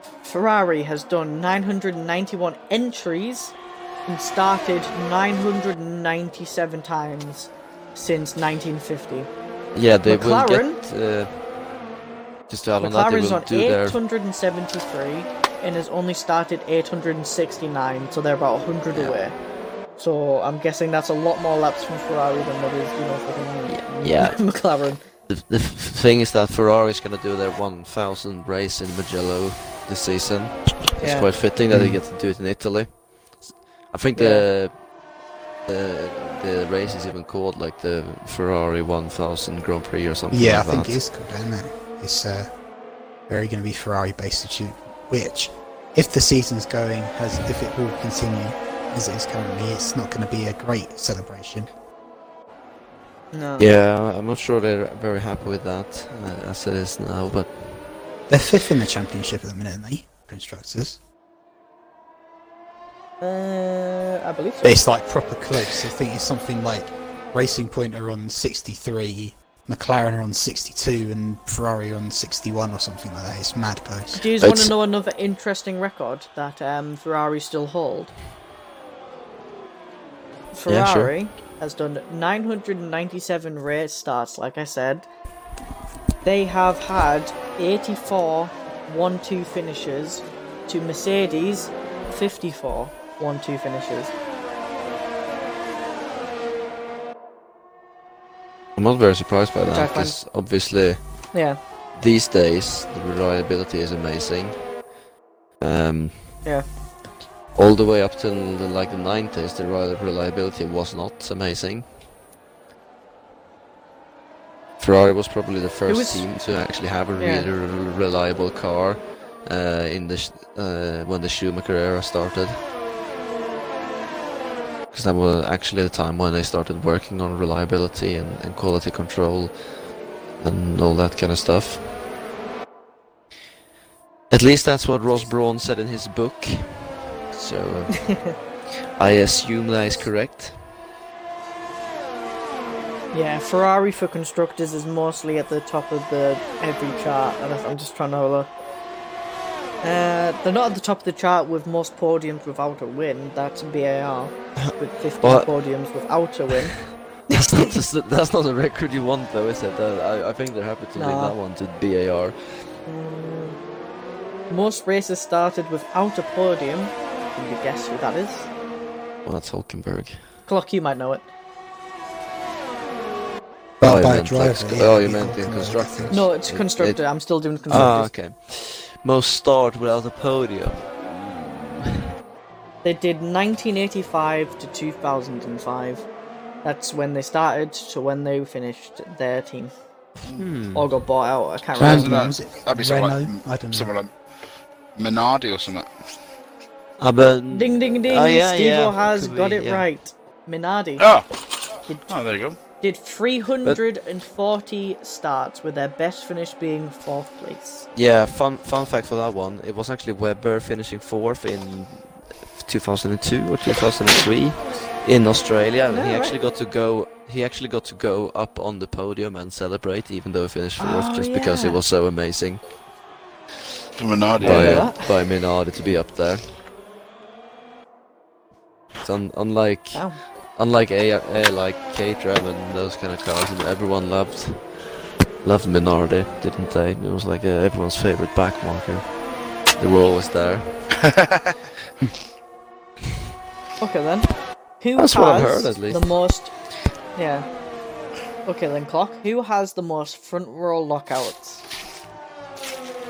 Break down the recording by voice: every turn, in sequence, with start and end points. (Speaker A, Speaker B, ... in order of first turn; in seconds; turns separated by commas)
Speaker A: 0.2-3.5, Speaker A: 4.0-9.3, Speaker B: 9.7-11.3, Speaker A: 10.1-10.8, Speaker B: 12.5-14.0, Speaker A: 12.8-19.4, Speaker B: 18.9-19.2, Speaker A: 20.0-25.0, Speaker B: 23.7-24.4, Speaker B: 25.3-34.7, Speaker A: 31.0-31.3, Speaker C: 31.7-32.0, Speaker A: 34.1-34.5, Speaker B: 35.7-41.0, Speaker C: 40.3-42.5, Speaker C: 43.3-51.7, Speaker A: 53.3-53.7, Speaker B: 53.6-57.5, Speaker C: 58.3-61.0, Speaker A: 63.2-64.8, Speaker C: 64.6-74.2, Speaker A: 74.1-78.1, Speaker B: 74.4-74.7, Speaker A: 80.5-85.1, Speaker B: 80.7-81.1, Speaker A: 86.2-94.1, Speaker B: 98.8-101.0, Speaker A: 99.7-100.2, Speaker A: 101.3-101.6, Speaker B: 102.0-104.6, Speaker B: 105.6-106.4, Speaker B: 107.5-111.8, Speaker B: 114.8-122.6, Speaker A: 115.9-116.2, Speaker A: 117.2-117.5, Speaker B: 124.9-129.5, Speaker B: 130.4-131.9, Speaker B: 134.3-138.1, Speaker A: 137.9-138.3, Speaker B: 139.0-140.6, Speaker A: 143.1-148.5, Speaker A: 149.8-156.8, Speaker B: 154.6-155.5, Speaker B: 157.3-162.4, Speaker A: 157.3-157.7, Speaker A: 160.9-161.3, Speaker A: 162.9-163.6, Speaker A: 164.5-168.5, Speaker B: 169.2-170.2, Speaker A: 170.5-171.3, Speaker C: 173.8-176.2, Speaker B: 173.8-177.0, Speaker A: 176.1-178.1, Speaker B: 177.7-182.1, Speaker A: 182.8-186.0, Speaker A: 186.6-189.7, Speaker B: 190.3-190.9, Speaker A: 190.7-192.3, Speaker C: 191.8-193.9, Speaker D: 191.8-194.1, Speaker D: 194.9-195.9, Speaker B: 197.0-199.8, Speaker A: 197.5-201.1, Speaker D: 201.0-201.3, Speaker D: 202.1-202.6, Speaker A: 202.8-207.8, Speaker B: 207.9-222.6, Speaker A: 215.9-216.3, Speaker A: 220.8-221.8, Speaker D: 223.9-224.9, Speaker B: 224.4-226.4, Speaker A: 224.4-225.1, Speaker B: 229.0-234.6, Speaker A: 229.9-230.2, Speaker B: 235.4-239.1, Speaker B: 239.8-240.7, Speaker D: 241.0-241.5, Speaker A: 243.8-244.3, Speaker A: 244.8-246.5, Speaker B: 244.9-246.1, Speaker A: 247.1-247.5, Speaker A: 248.4-251.6